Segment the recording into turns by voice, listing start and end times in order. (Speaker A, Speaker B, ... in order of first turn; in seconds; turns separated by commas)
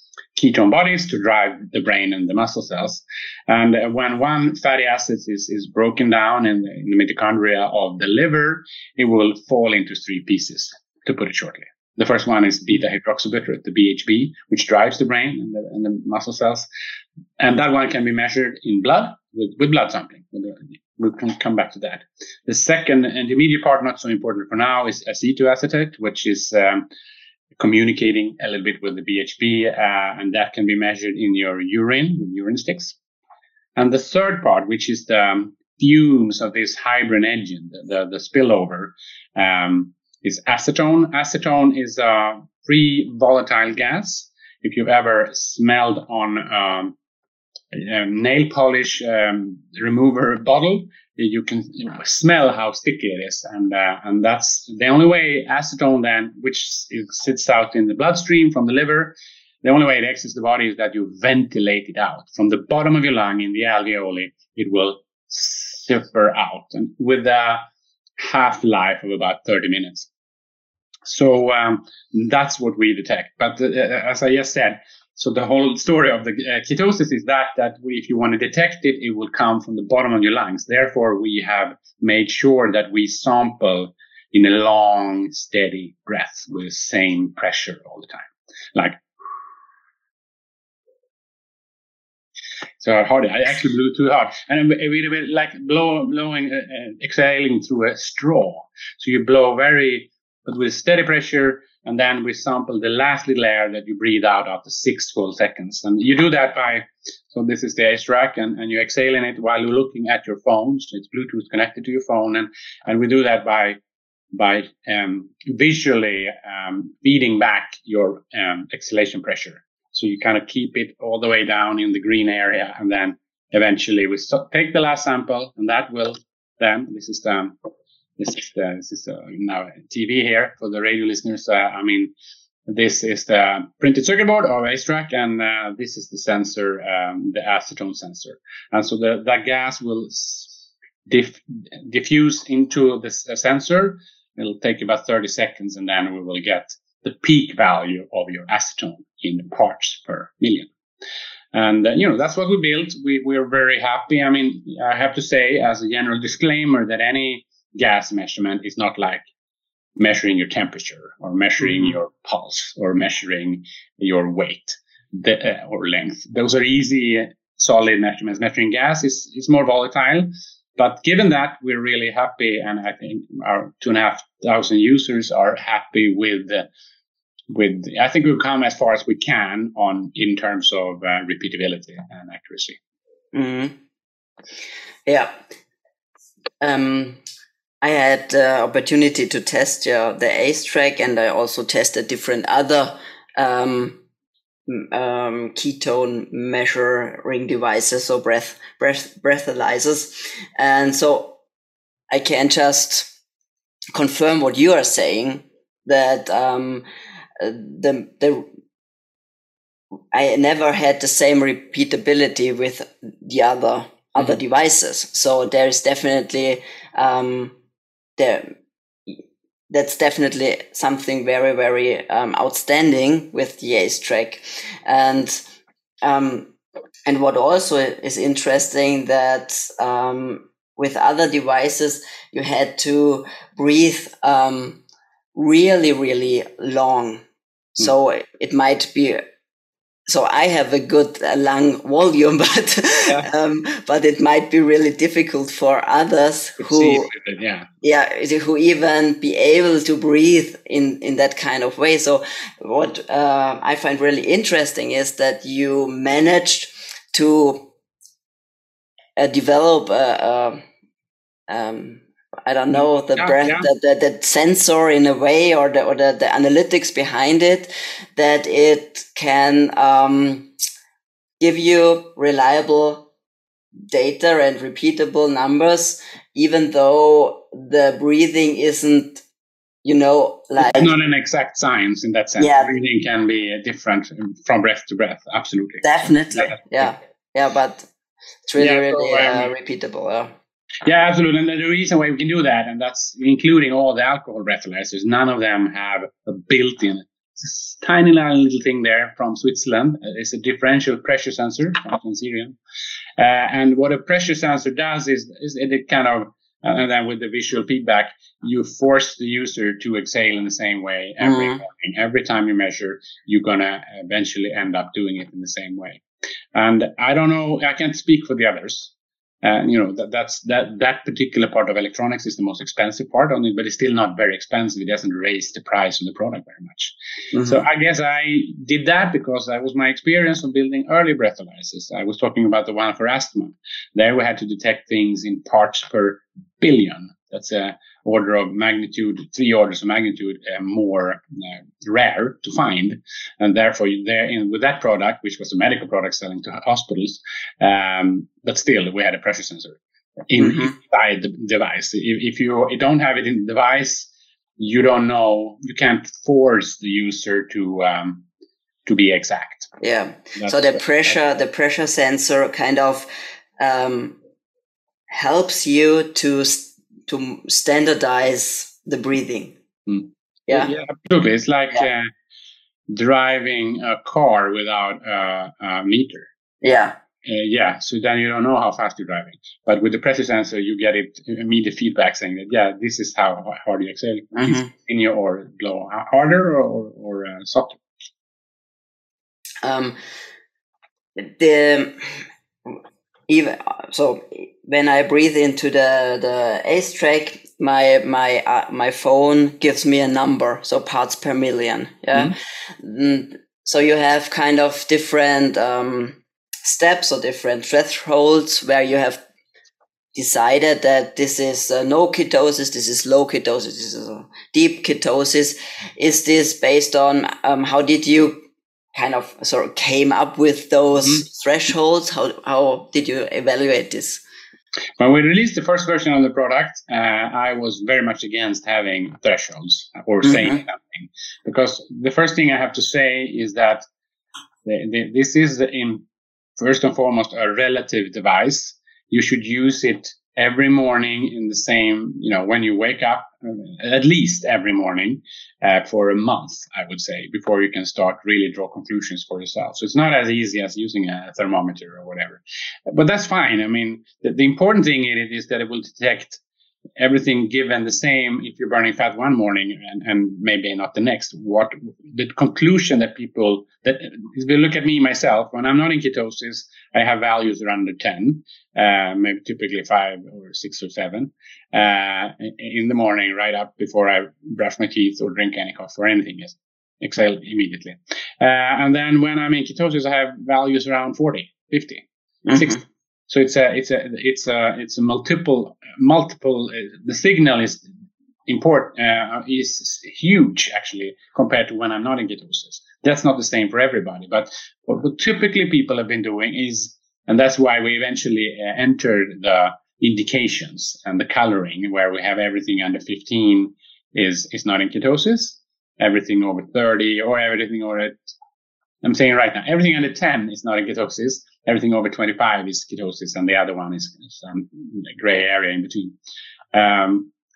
Speaker A: 0.3-16.7, Speaker A: 17.4-26.9, Speaker A: 27.6-33.0, Speaker A: 33.8-47.0, Speaker A: 47.7-67.6, Speaker A: 68.2-70.1, Speaker A: 71.1-89.0, Speaker A: 92.8-113.8, Speaker A: 114.3-127.5, Speaker A: 128.2-132.1, Speaker A: 132.7-150.7, Speaker A: 151.5-159.2, Speaker A: 160.0-176.7, Speaker A: 177.5-182.8, Speaker B: 183.3-183.8, Speaker B: 185.1-185.4, Speaker B: 186.6-187.2, Speaker B: 187.8-194.0, Speaker B: 194.7-201.4, Speaker B: 202.1-203.1, Speaker B: 203.9-206.8, Speaker B: 207.4-208.5, Speaker B: 210.1-217.6, Speaker B: 218.2-218.5, Speaker B: 219.1-225.4, Speaker B: 226.0-226.5, Speaker B: 227.1-234.8, Speaker B: 235.3-237.2, Speaker B: 237.8-239.2, Speaker B: 240.1-247.1, Speaker A: 246.6-247.7, Speaker B: 247.8-257.7, Speaker B: 259.2-260.6, Speaker B: 261.5-270.5, Speaker A: 262.8-263.7, Speaker B: 271.4-273.1, Speaker B: 273.9-279.2, Speaker B: 279.8-280.9, Speaker A: 280.6-286.6, Speaker B: 282.4-282.8, Speaker B: 285.8-287.9, Speaker B: 288.5-290.3, Speaker A: 288.6-289.5, Speaker A: 290.9-302.6, Speaker A: 303.2-316.0, Speaker B: 311.2-311.6, Speaker A: 316.5-358.2, Speaker B: 327.3-327.6, Speaker B: 350.4-350.8, Speaker A: 358.9-359.7, Speaker B: 359.8-363.1, Speaker A: 360.4-360.8, Speaker B: 363.6-364.2, Speaker B: 365.1-369.6, Speaker A: 369.9-372.1, Speaker B: 370.5-370.7, Speaker A: 372.9-376.3, Speaker B: 376.6-377.0, Speaker A: 377.2-387.8, Speaker B: 384.4-384.7, Speaker B: 389.6-390.0, Speaker B: 391.2-392.1, Speaker B: 392.7-409.2, Speaker B: 410.1-424.2, Speaker A: 425.0-433.8, Speaker B: 430.2-430.6, Speaker A: 434.6-436.0, Speaker A: 436.6-456.4, Speaker A: 457.0-487.9, Speaker B: 482.5-482.8, Speaker A: 488.5-508.3, Speaker A: 509.0-516.1, Speaker A: 516.7-517.3